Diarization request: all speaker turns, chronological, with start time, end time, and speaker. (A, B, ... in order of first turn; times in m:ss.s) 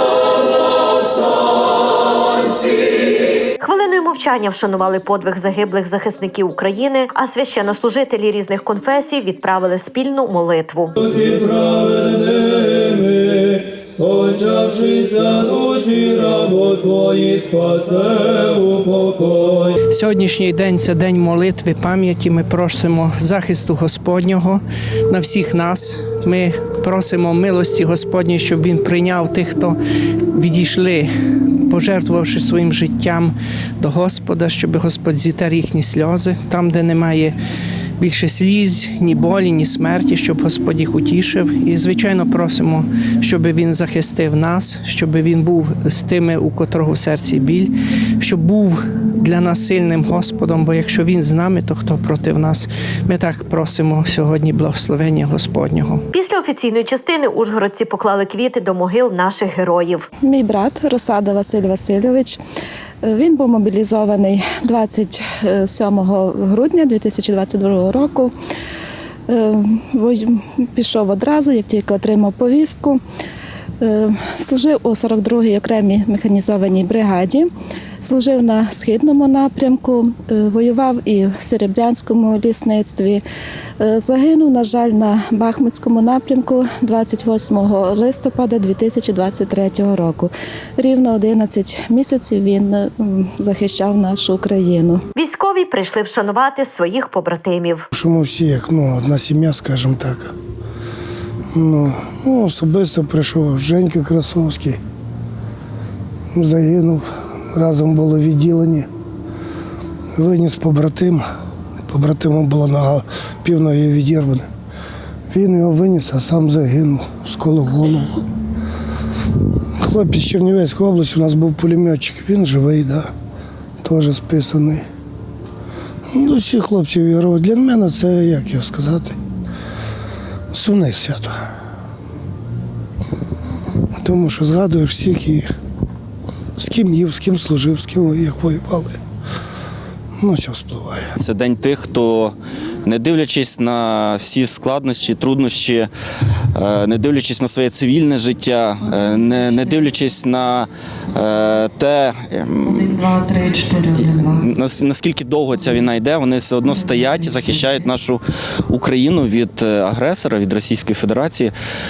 0:03.6-0:10.9 A
0:11.0-0:19.7 B
0:19.9-0:29.8 C
0:30.3-0:31.1 C
0:31.7-0:37.4 C
0:38.0-0:56.0 C
0:56.1-1:00.1 A
1:00.3-1:02.3 D
1:03.1-1:08.3 D
1:09.3-1:10.2 D
1:10.8-1:12.9 D
1:13.8-1:17.4 D
1:18.0-1:23.2 D
1:23.9-1:30.2 D
1:30.9-1:32.6 D
1:33.2-1:34.8 D
1:35.1-1:37.8 A
1:37.9-1:40.3 E
1:41.5-1:44.8 E
1:46.3-1:48.9 E
1:50.1-1:51.2 E
1:51.9-1:54.5 E
1:55.3-1:58.2 E
1:59.8-2:03.1 E
2:03.8-2:04.8 E
2:06.1-2:09.2 E
2:10.5-2:11.4 E
2:14.0-2:15.4 E
2:16.6-2:19.0 E
2:20.2-2:21.1 E
2:21.2-2:25.9 F
2:26.5-2:41.5 F